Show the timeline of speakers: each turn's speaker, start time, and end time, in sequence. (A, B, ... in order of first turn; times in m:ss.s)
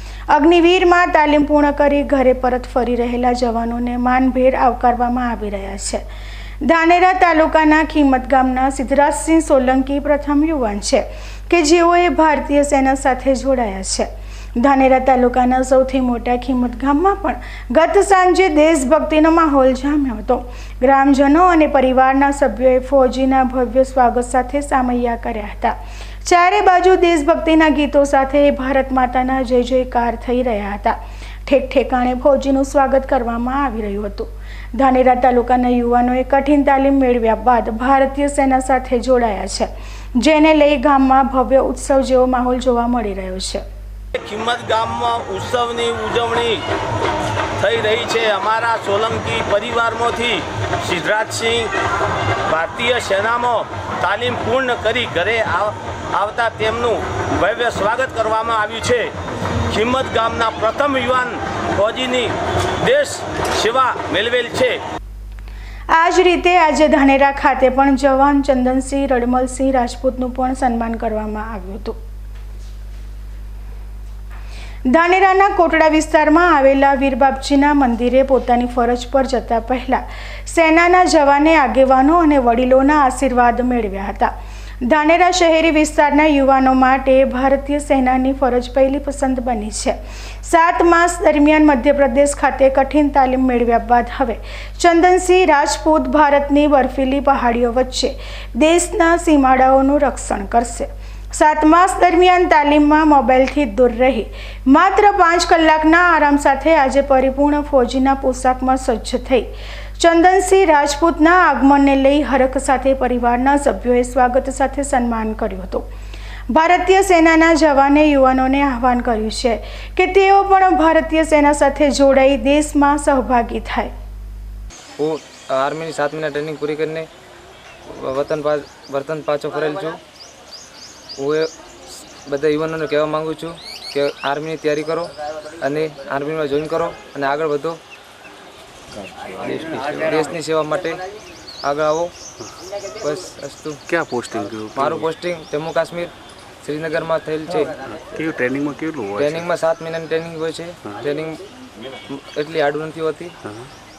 0:00.3-0:06.0 A
0:06.6-0:43.6 A
0:44.1-0:46.6 B
0:47.6-0:51.7 B
0:52.5-0:59.1 B
0:59.7-1:04.8 B
1:05.9-1:12.0 A
1:14.9-1:24.3 A
1:24.8-1:55.9 A
1:56.5-2:03.9 A
2:05.0-2:07.1 C
2:07.9-2:10.0 C
2:11.2-2:11.5 C
2:12.2-2:17.8 C
2:19.4-2:21.0 C
2:21.6-2:22.1 C
2:23.0-2:23.8 C
2:23.9-2:25.1 D
2:24.7-2:26.1 C
2:26.6-2:27.7 C
2:27.7-2:29.5 D
2:29.2-2:31.4 C
2:32.1-2:33.4 C
2:33.4-2:33.7 D